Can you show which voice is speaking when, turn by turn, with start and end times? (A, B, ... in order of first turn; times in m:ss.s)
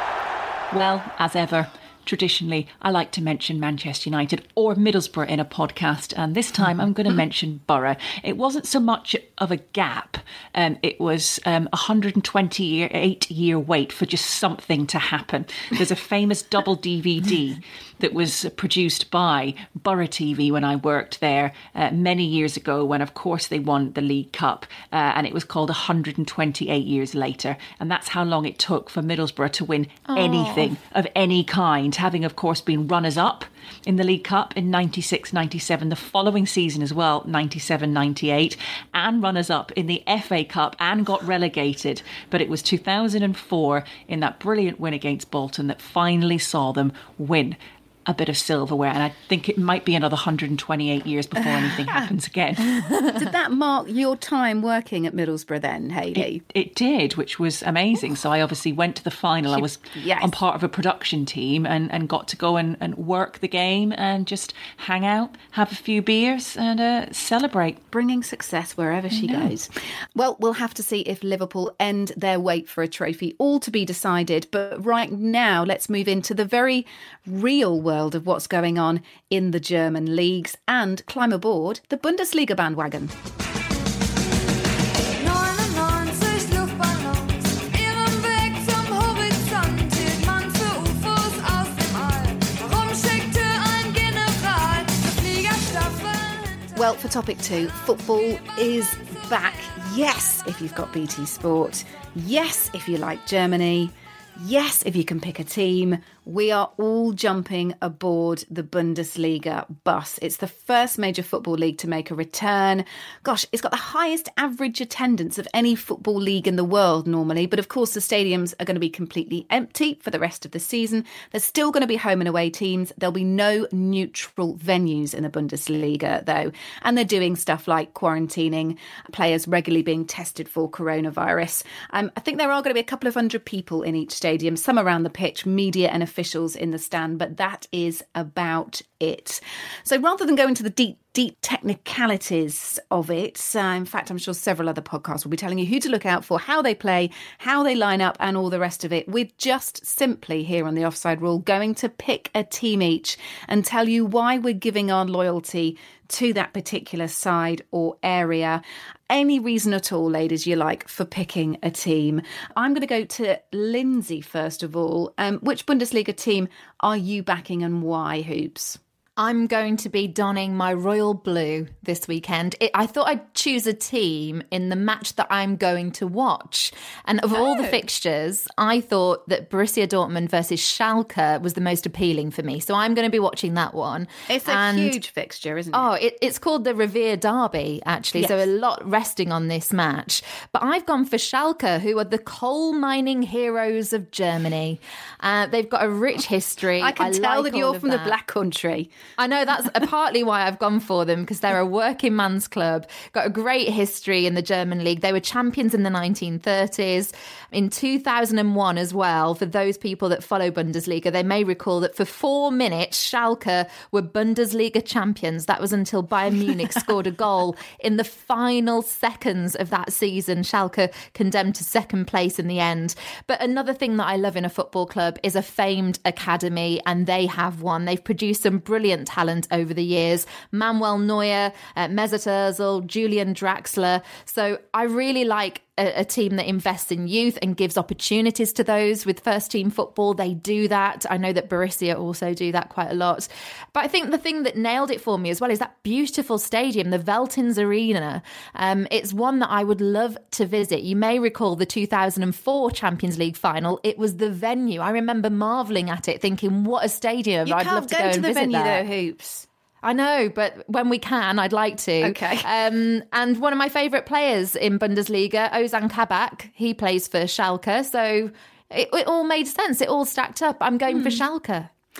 0:00.7-0:52.8 A
0:30.1-0:30.8 B
0:51.4-0:52.1 C
0:53.1-0:56.4 C
0:56.1-1:07.8 A
0:59.5-1:00.3 C
1:07.9-1:23.1 C
1:09.2-1:09.5 A
1:25.2-1:37.0 D
1:36.7-2:48.8 C
1:37.6-1:39.7 D
2:49.2-3:04.9 B
2:57.3-2:57.8 C
3:04.3-3:05.9 C
3:05.7-3:18.1 B
3:08.2-3:08.4 C
3:16.8-3:18.9 C
3:19.2-4:18.8 B
4:17.4-4:19.4 C
4:19.8-4:31.7 B
4:22.0-4:22.5 C
4:30.9-4:31.2 C